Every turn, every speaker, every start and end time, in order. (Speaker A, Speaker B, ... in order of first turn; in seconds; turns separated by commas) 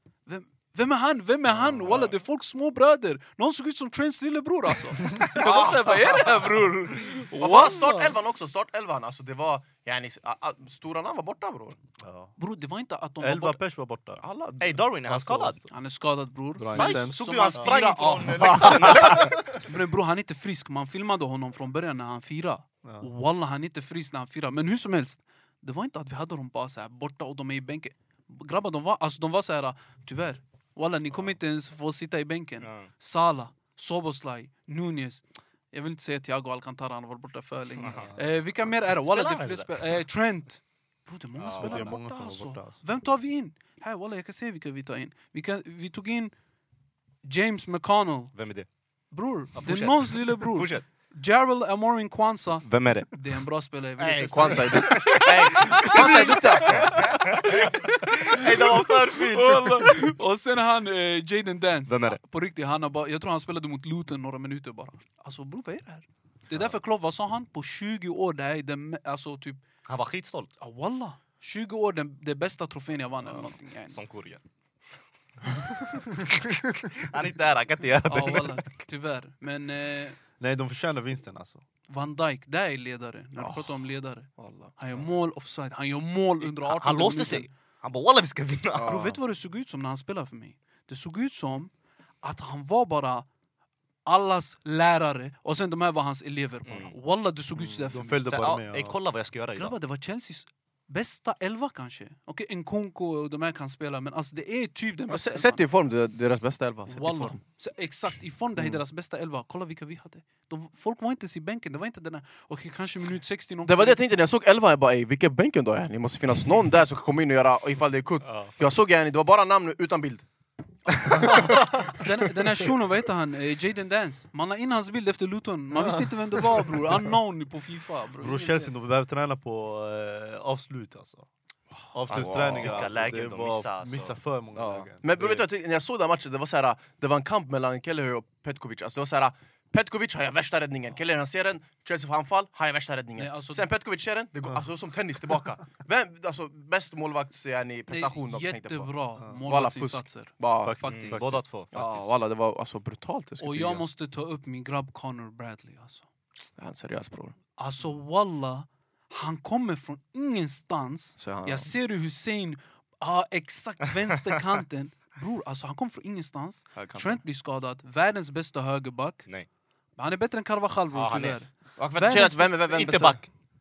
Speaker A: 0.3-8.1, Speaker B: 1.8-2.1, Speaker C: 5.3-6.5, Speaker C: 7.4-11.8, Speaker B: 12.0-12.3, Speaker A: 12.4-13.6, Speaker B: 13.2-14.2, Speaker C: 14.2-14.9, Speaker D: 14.6-15.6, Speaker B: 15.1-15.7, Speaker A: 15.7-46.3, Speaker B: 16.6-17.8, Speaker D: 16.7-19.4, Speaker C: 18.4-19.3, Speaker B: 18.4-19.6, Speaker B: 22.8-23.1, Speaker D: 32.6-32.9, Speaker D: 37.8-38.1, Speaker B: 37.9-38.3, Speaker D: 38.8-39.8, Speaker D: 41.4-42.0, Speaker B: 41.6-42.8, Speaker A: 47.2-48.3, Speaker D: 48.4-48.7, Speaker A: 49.1-69.6, Speaker D: 49.6-50.9, Speaker D: 52.6-53.1, Speaker C: 54.0-57.2, Speaker D: 54.7-60.1, Speaker D: 61.9-62.2, Speaker D: 69.9-70.5, Speaker A: 70.6-74.0, Speaker D: 73.4-74.4, Speaker D: 76.0-78.7, Speaker A: 78.1-80.2, Speaker B: 80.4-81.6, Speaker A: 81.9-87.5, Speaker C: 83.4-83.8, Speaker C: 84.4-84.8, Speaker D: 86.4-89.0, Speaker C: 88.7-89.2, Speaker A: 88.8-91.7, Speaker A: 92.2-93.3, Speaker A: 94.1-98.3, Speaker D: 96.7-97.0, Speaker B: 97.6-99.0, Speaker D: 98.3-99.8, Speaker A: 99.5-105.6, Speaker C: 105.1-107.4, Speaker A: 106.9-114.0, Speaker C: 108.6-108.8, Speaker C: 113.7-120.3, Speaker B: 118.2-118.6, Speaker C: 120.9-121.9, Speaker A: 121.9-128.7, Speaker B: 125.7-127.1, Speaker B: 128.2-131.3, Speaker B: 131.9-135.4, Speaker D: 132.1-134.2, Speaker C: 132.3-132.8, Speaker C: 134.6-148.9, Speaker A: 143.2-143.7, Speaker A: 147.9-151.2, Speaker C: 149.4-151.2, Speaker B: 150.6-151.4, Speaker D: 150.9-152.1, Speaker C: 151.7-153.8, Speaker A: 153.4-156.1, Speaker C: 156.6-157.3, Speaker A: 157.6-169.3, Speaker C: 161.2-161.7, Speaker C: 166.8-167.2, Speaker A: 170.0-172.6, Speaker D: 170.9-171.4, Speaker C: 171.8-173.2, Speaker D: 172.7-173.3